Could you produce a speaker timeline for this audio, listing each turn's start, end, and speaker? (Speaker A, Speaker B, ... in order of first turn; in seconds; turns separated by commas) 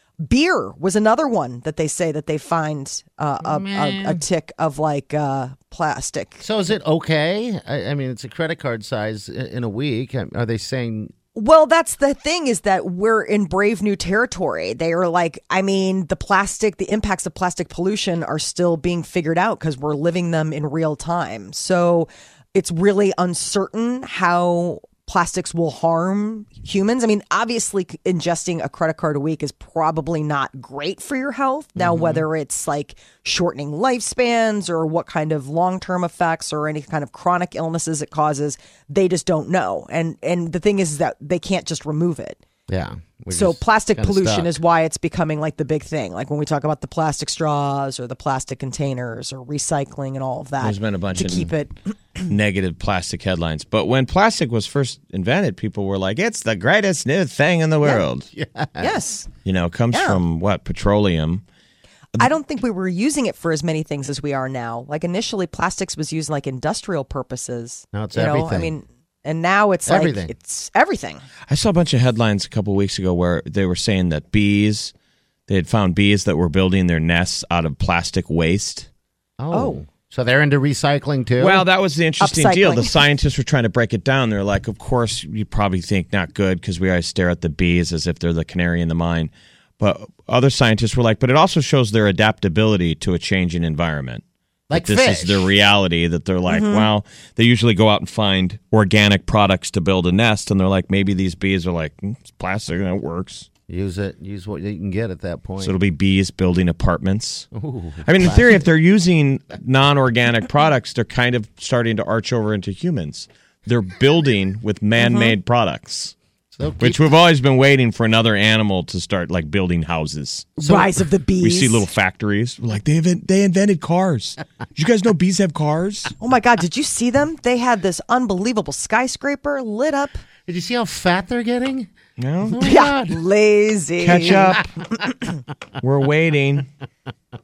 Speaker A: 0.2-6.4, Speaker B: 3.4-4.2, Speaker B: 6.4-11.1, Speaker A: 11.3-42.4, Speaker B: 31.8-32.2, Speaker B: 42.7-44.6, Speaker A: 43.3-52.3, Speaker C: 50.6-51.5, Speaker C: 52.2-58.2, Speaker B: 58.3-59.0, Speaker A: 58.8-59.3, Speaker C: 59.4-61.4, Speaker A: 59.9-60.2, Speaker A: 62.2-71.2, Speaker B: 67.9-68.7, Speaker B: 69.8-70.3, Speaker C: 71.5-74.9, Speaker C: 75.5-78.9, Speaker B: 79.4-81.6, Speaker A: 79.5-79.8, Speaker C: 81.4-103.5, Speaker A: 82.2-82.9, Speaker B: 94.7-95.5, Speaker A: 96.5-96.9, Speaker B: 103.7-105.8, Speaker C: 105.6-107.5, Speaker B: 107.5-108.7, Speaker C: 108.0-116.1, Speaker A: 115.0-115.3, Speaker B: 116.5-117.1, Speaker C: 116.8-120.6, Speaker A: 120.6-121.8, Speaker B: 120.6-121.0, Speaker C: 121.4-126.1, Speaker A: 126.2-130.2, Speaker B: 130.4-131.9, Speaker C: 132.2-132.7, Speaker B: 132.4-133.2, Speaker A: 132.6-134.5, Speaker C: 134.0-134.7, Speaker C: 135.8-136.7